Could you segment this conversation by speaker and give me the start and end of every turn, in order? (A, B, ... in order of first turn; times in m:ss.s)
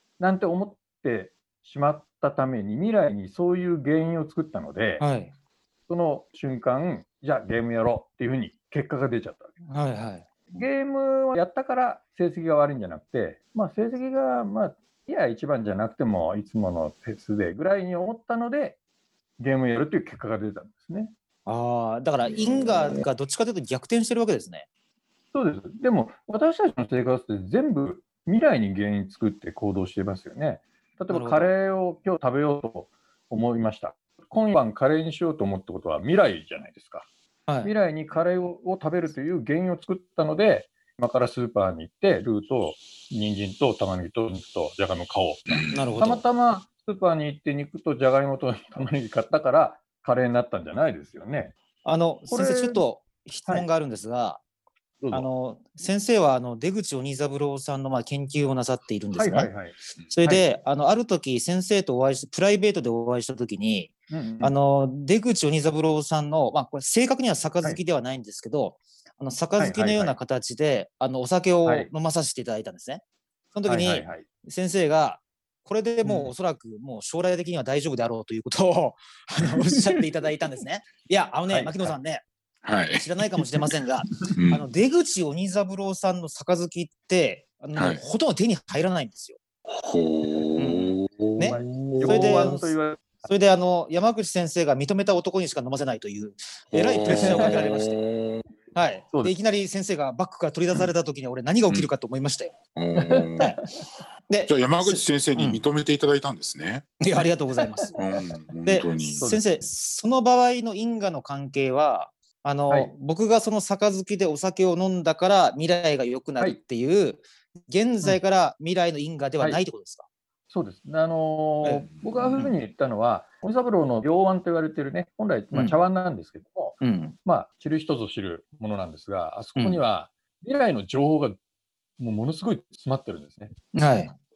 0:00.2-0:05.1 A
0:05.0-0:05.3 B
0:05.9-0:09.6 A
0:09.7-0:10.3 B
0:10.5-0:18.8 A
0:19.4-0:21.1 A
0:21.5-0:24.7 B
0:25.3-0:37.1 A
0:31.1-0:31.5 B
0:37.6-0:51.5 A
0:45.5-0:45.8 C
0:45.7-0:46.2 B
0:51.8-0:54.4 B
0:52.3-0:52.8 A
0:55.0-0:55.3 A
0:55.1-0:59.5 B
0:59.1-1:00.4 A
1:00.1-1:13.0 B
1:04.1-1:04.5 A
1:09.6-1:10.1 A
1:13.5-1:22.2 B
1:13.7-1:14.2 A
1:16.0-1:16.3 A
1:21.5-1:21.9 A
1:22.6-1:23.1 C
1:23.0-1:29.4 B
1:24.3-1:24.7 C
1:27.8-1:28.0 C
1:29.7-1:32.5 C
1:30.6-1:32.7 B
1:31.5-1:33.3 A
1:33.3-1:38.0 B
1:36.7-1:38.4 C
1:37.1-1:37.6 A
1:38.7-1:42.6 B
1:42.8-1:43.6 C
1:43.0-1:43.9 A
1:44.3-1:45.6 B
1:44.5-1:46.8 C
1:47.0-1:48.0 B
1:47.6-1:48.0 A
1:48.0-1:49.3 C
1:48.7-2:00.0 B
1:49.2-1:49.6 A
2:00.5-2:11.4 A
2:02.0-2:02.3 C
2:06.8-2:07.2 B
2:09.6-2:09.8 B
2:12.0-2:13.5 A
2:13.7-2:14.1 B